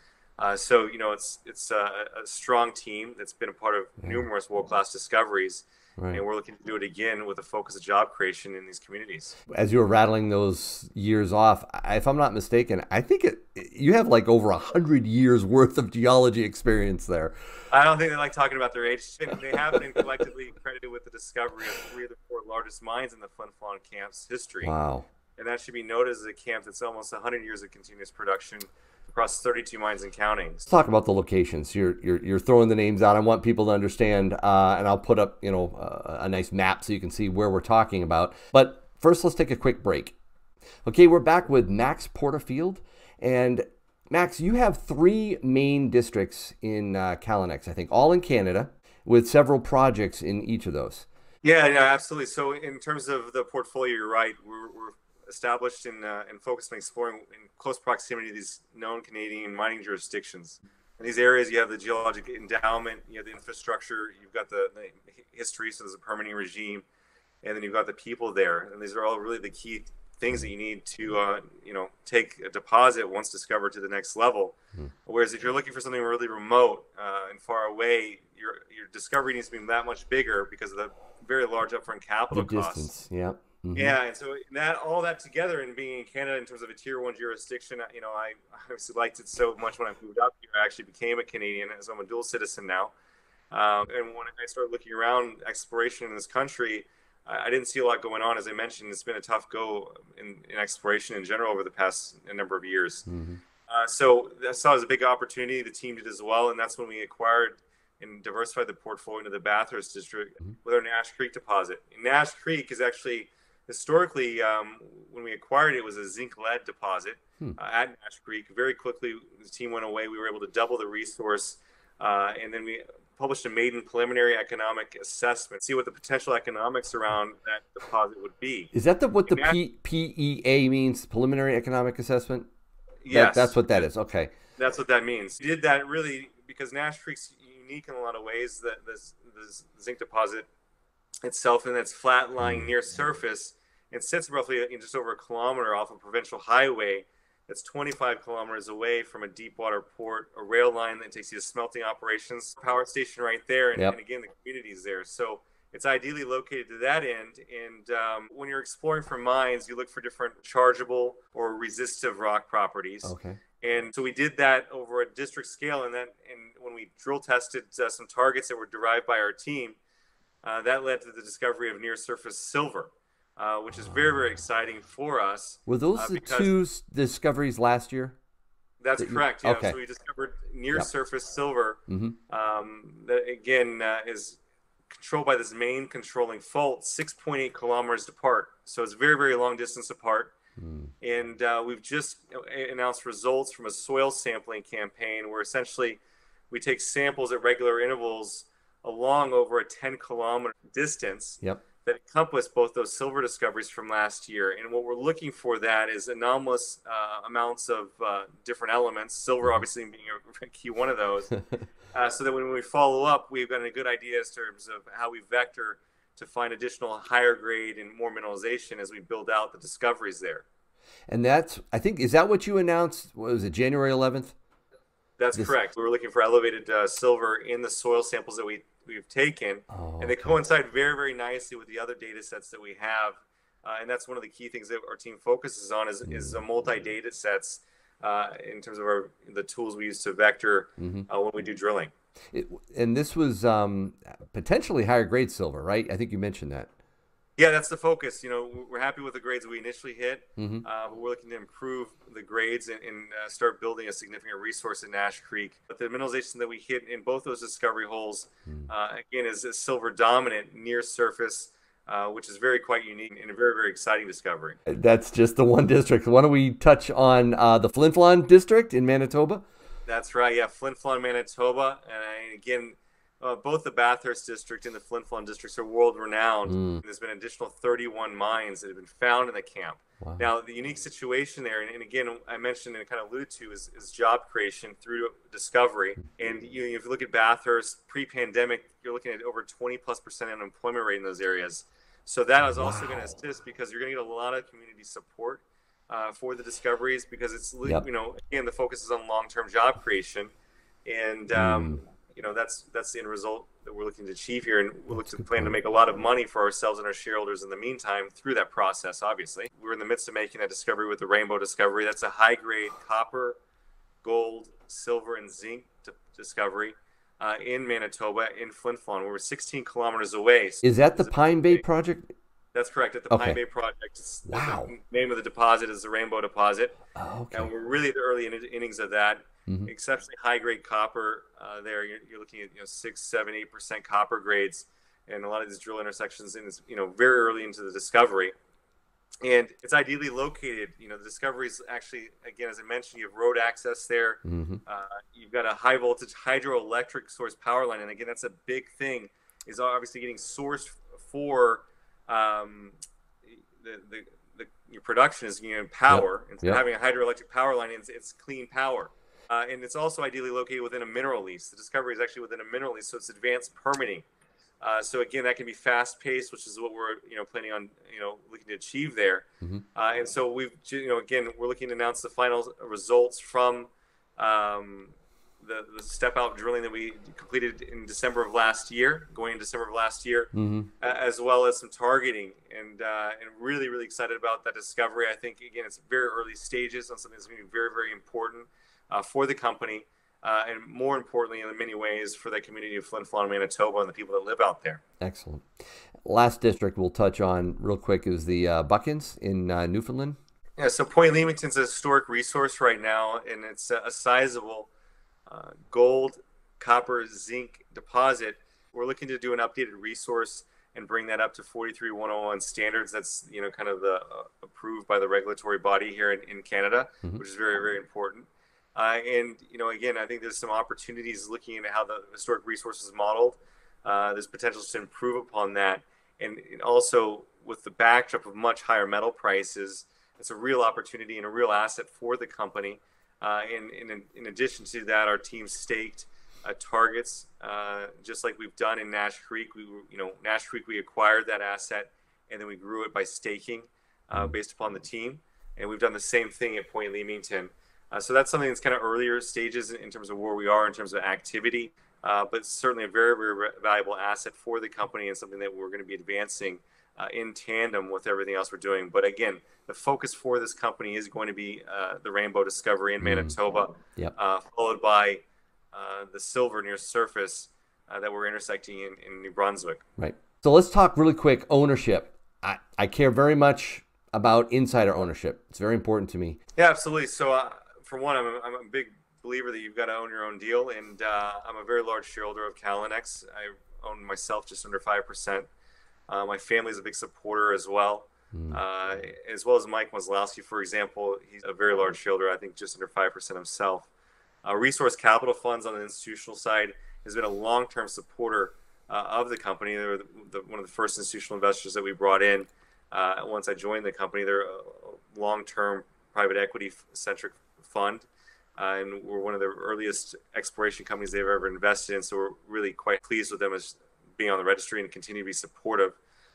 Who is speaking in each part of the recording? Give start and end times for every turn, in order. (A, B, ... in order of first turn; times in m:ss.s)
0:00.4-0:09.4 A
0:06.0-0:06.2 B
0:09.5-0:17.3 B
0:17.7-0:24.7 A
0:24.6-0:25.0 B
0:25.4-0:30.6 A
0:30.7-0:40.2 B
0:40.8-0:51.1 B
0:51.4-1:06.8 A
1:07.4-1:14.5 A
1:15.0-1:22.9 A
1:22.3-1:24.0 B
1:23.7-1:32.9 A
1:33.5-1:43.0 A
1:43.1-1:43.4 B
1:43.7-2:08.7 A
2:08.7-2:12.5 B
2:09.3-2:09.6 A
2:13.0-2:13.8 A
2:13.1-2:14.3 B
2:14.6-2:20.5 A
2:21.2-2:49.8 A
2:22.4-2:22.7 B
2:43.0-2:43.4 B
2:50.4-2:56.5 A
2:55.7-2:58.2 B
2:58.8-3:04.4 A
2:59.0-2:59.8 B
3:01.9-3:02.2 B
3:04.9-3:10.3 A
3:10.6-3:10.9 B
3:11.0-3:31.4 A
3:31.9-3:40.4 A
3:41.1-3:44.3 B
3:45.2-4:01.9 A
3:49.7-3:50.4 B
3:56.0-3:56.4 B
4:00.8-4:01.1 B
4:02.3-4:06.7 B
4:07.4-4:24.6 A
4:10.4-4:10.6 B
4:24.6-4:29.4 B
4:29.8-5:00.3 A
4:36.5-4:36.8 B
4:52.5-4:53.0 B
5:00.8-5:13.4 A
5:01.3-5:01.8 B
5:05.0-5:05.5 B
5:14.0-5:21.6 A
5:20.6-5:22.1 B
5:22.5-5:26.8 A
5:23.1-5:23.4 B
5:24.2-5:24.7 B
5:26.9-5:27.5 B
5:27.3-5:38.3 A
5:39.2-6:04.0 A
5:44.2-5:44.6 B
5:55.9-5:56.6 B
6:04.6-6:34.8 A
6:20.3-6:20.7 B
6:35.0-6:35.5 B
6:36.0-6:40.2 B
6:40.6-6:44.7 A
6:45.3-7:49.8 A
7:43.0-7:43.4 B
7:50.0-7:56.4 B
7:56.6-8:05.5 A
8:06.1-8:13.9 A
8:08.3-8:08.6 B
8:14.4-8:36.0 A